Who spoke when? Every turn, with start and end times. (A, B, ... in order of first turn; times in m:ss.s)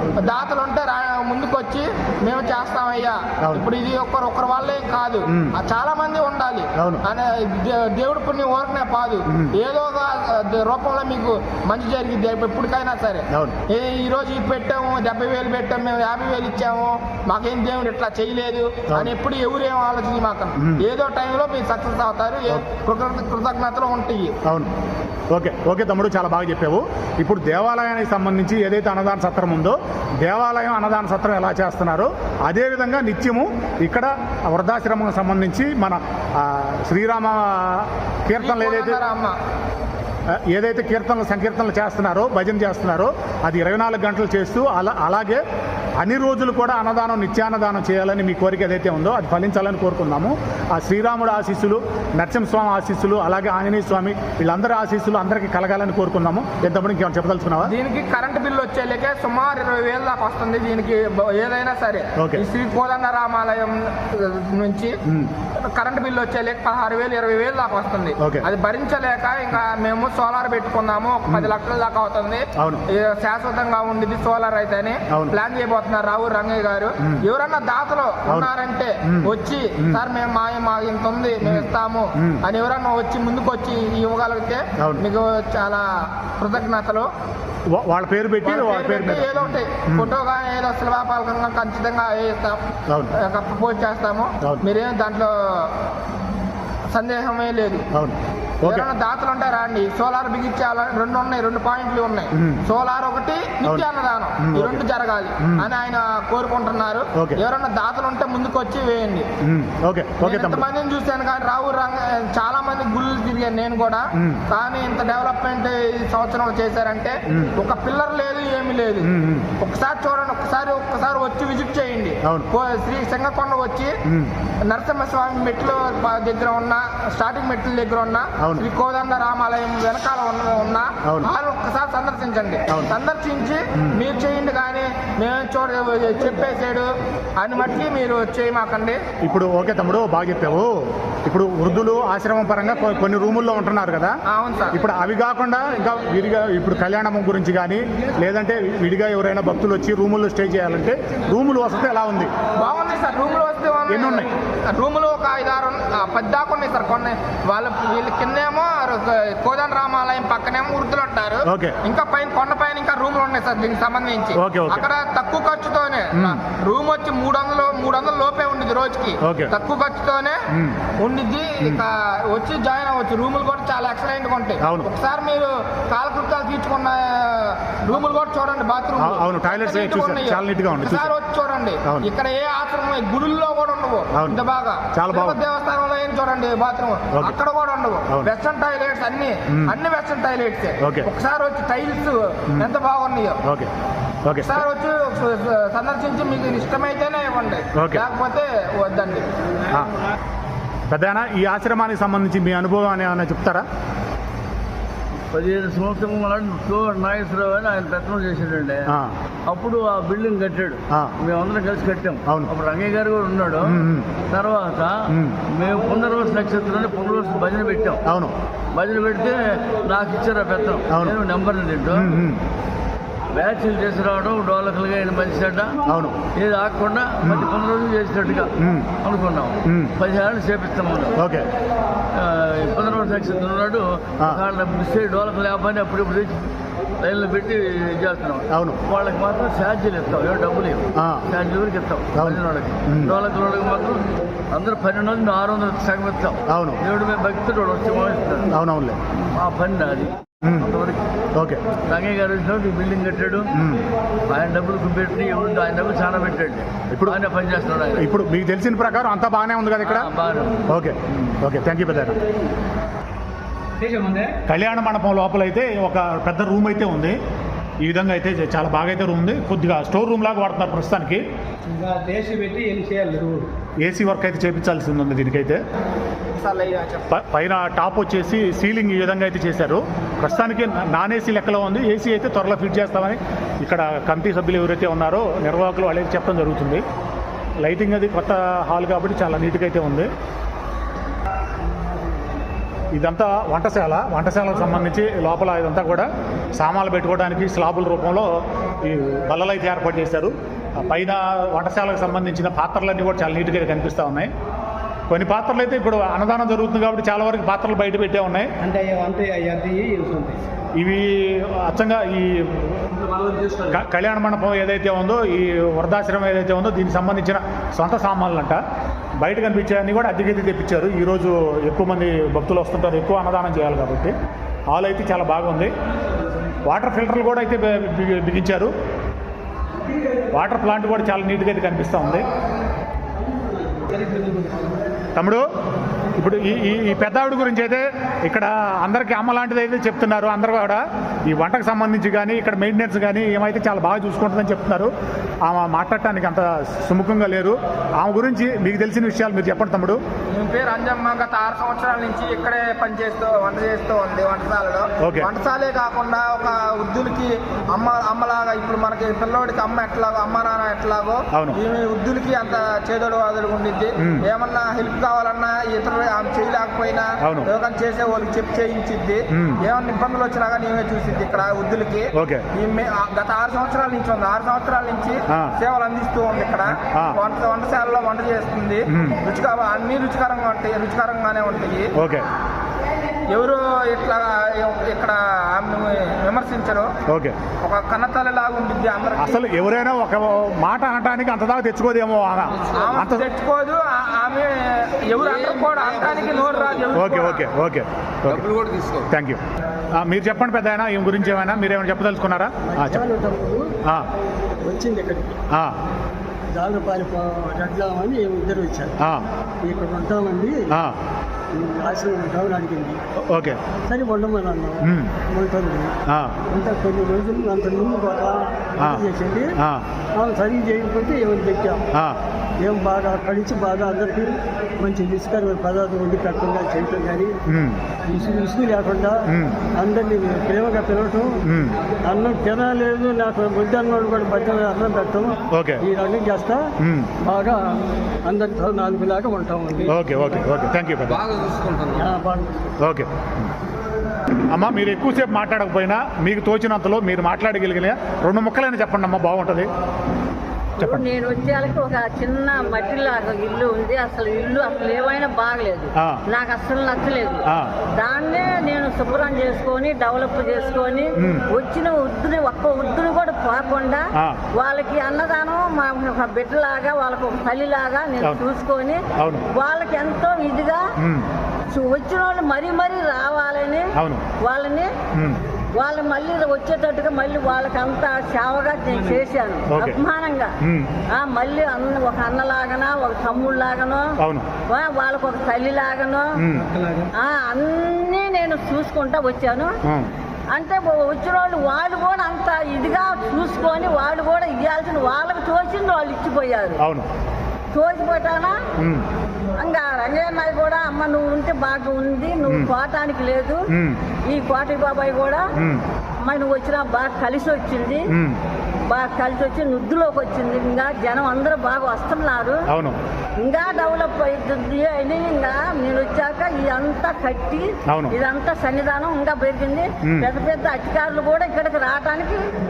0:00.2-0:24.4 A
0:06.8-0:07.0 B
0:09.3-0:09.5 B
0:13.3-0:13.6 B
0:24.4-0:24.7 B
0:25.3-0:39.0 B
0:38.4-0:39.4 A
0:40.3-0:45.4 B
0:46.0-0:57.7 B
0:57.6-1:05.0 A
1:02.2-1:02.4 B
1:05.1-1:05.3 B
1:05.5-1:27.1 A
1:08.2-1:08.4 B
1:12.6-1:12.8 B
1:21.4-1:22.4 B
1:27.7-1:30.1 B
1:28.4-1:35.8 A
1:32.9-1:33.1 B
1:36.9-1:37.9 A
1:37.9-1:38.9 B
1:38.6-1:49.3 A
1:42.3-1:42.6 B
1:44.4-1:44.8 B
1:47.2-1:47.4 B
1:49.4-1:50.6 B
1:50.2-2:04.0 A
1:54.2-1:54.4 B
1:57.3-1:57.5 B
1:59.0-1:59.5 B
2:04.1-2:04.3 B
2:04.7-2:19.0 A
2:19.2-2:20.7 B
2:21.3-2:24.2 B
2:24.3-2:24.8 A
2:24.7-2:32.3 B
2:32.6-2:50.4 A
2:33.9-2:34.3 B
2:41.5-2:41.8 B
2:44.4-2:44.9 B
2:49.2-2:49.5 B
2:50.5-2:50.8 B
2:51.0-3:13.4 A
2:54.6-2:54.9 B
2:59.0-3:01.1 B
3:04.1-3:04.4 B
3:04.9-3:05.4 B
3:09.5-3:09.8 B
3:10.8-3:11.1 B
3:13.4-3:13.7 B
3:14.2-3:14.7 B
3:14.4-3:19.3 A
3:17.8-3:18.0 B
3:20.9-3:23.6 B
3:25.3-3:28.9 C
3:28.9-3:29.2 B
3:29.5-3:38.0 C
3:33.6-3:34.1 B
3:35.1-3:35.4 B
3:38.1-3:38.3 B
3:38.7-3:42.1 C
3:40.9-3:41.2 B
3:41.9-3:42.4 B
3:43.3-3:45.8 C
3:45.9-3:46.2 B
3:46.4-3:48.5 C
3:47.2-3:47.5 B
3:48.6-3:48.9 B
3:49.0-3:51.2 C
3:49.6-3:49.9 B
3:51.2-3:51.5 B
3:52.1-3:56.5 C
3:57.0-4:08.5 C
3:58.5-3:58.8 B
4:01.0-4:01.3 B
4:02.2-4:03.2 B
4:06.5-4:06.8 B
4:08.5-4:09.0 B
4:09.3-4:11.0 C
4:10.4-4:10.7 B
4:11.4-4:11.6 B
4:11.9-4:13.5 C
4:13.5-4:13.8 B
4:14.3-4:18.1 C
4:16.9-4:17.2 B
4:18.0-4:20.1 B
4:19.8-4:20.7 C
4:20.7-4:22.2 B
4:23.8-4:24.3 D
4:24.5-4:27.2 B
4:27.8-4:31.2 B
4:31.6-4:33.5 D
4:33.8-4:35.6 B
4:36.4-4:37.1 A
4:37.1-4:46.8 B
4:47.6-4:50.1 B
4:52.9-5:04.3 B
5:05.1-5:08.5 B
5:08.6-5:10.4 D
5:10.8-5:12.7 B
5:12.9-5:13.8 D
5:13.7-5:18.6 B
5:19.2-5:24.1 B
5:24.7-5:25.7 B
5:26.7-5:28.7 B
5:30.3-5:32.2 B
5:33.8-5:34.7 D
5:35.2-5:35.4 B
5:36.2-5:44.9 B
5:45.4-5:50.0 B
5:50.3-6:21.9 A
5:55.0-5:55.3 B
6:07.2-6:07.5 B
6:09.3-6:09.6 B
6:12.1-6:12.4 B
6:15.3-6:15.5 B
6:16.7-6:17.2 B
6:18.9-6:19.2 B
6:22.0-6:22.3 B
6:23.3-6:26.9 A
6:27.1-6:27.4 B
6:27.6-6:29.5 A
6:29.2-6:33.3 B
6:32.5-6:32.9 D
6:32.7-6:37.4 A
6:35.3-6:37.0 D
6:36.9-6:38.5 B
6:38.3-6:39.1 D
6:39.1-6:39.4 B
6:40.0-6:43.1 B
6:42.7-6:43.6 E
6:44.6-6:45.4 E
6:46.6-6:49.0 E
6:49.0-6:49.3 B
6:49.7-6:50.6 E
6:50.7-6:51.0 B
6:51.5-6:53.0 E
6:53.3-6:53.6 B
6:53.9-6:55.9 E
6:54.8-6:55.1 B
6:56.1-6:56.4 B
6:56.5-6:59.6 E
6:58.8-6:59.1 B
6:59.6-6:59.9 B
7:00.2-7:01.8 E
7:01.9-7:02.2 B
7:02.6-7:04.3 E
7:04.8-7:07.4 E
7:07.5-7:07.8 B
7:08.0-7:09.2 E
7:09.3-7:09.6 B
7:09.8-7:11.3 E
7:11.4-7:11.8 B
7:12.1-7:16.6 E
7:15.5-7:15.8 B
7:16.8-7:17.1 B
7:17.2-7:17.6 E
7:18.3-7:20.0 E
7:19.9-7:21.2 B
7:21.1-7:22.1 D
7:22.0-7:22.7 E
7:22.8-7:23.5 B
7:24.5-7:29.7 B
7:30.8-7:37.5 F
7:30.8-7:31.1 B
7:38.0-7:50.8 F
7:41.2-7:41.5 B
7:49.2-7:49.5 B
7:51.0-7:51.3 B
7:51.7-7:54.9 F
7:54.0-7:54.2 B
7:55.1-7:55.4 B
7:55.8-8:00.5 F
7:59.0-7:59.2 D
7:59.7-8:00.0 B
8:00.6-8:00.9 B
8:01.1-8:04.1 F
8:04.2-8:04.5 B
8:04.7-8:06.4 F
8:06.4-8:06.6 B
8:06.5-8:07.1 D
8:07.2-8:09.7 F
8:10.5-8:16.8 F
8:16.8-8:17.1 B
8:17.7-8:18.6 F
8:18.8-8:19.0 B
8:19.6-8:23.7 F
8:22.5-8:22.7 B
8:23.7-8:24.0 B
8:24.3-8:25.5 F
8:25.6-8:25.8 B
8:26.2-8:28.1 F
8:28.1-8:28.4 B
8:28.9-8:32.6 F
8:32.7-8:33.0 B
8:33.4-8:42.4 F
8:37.9-8:38.2 B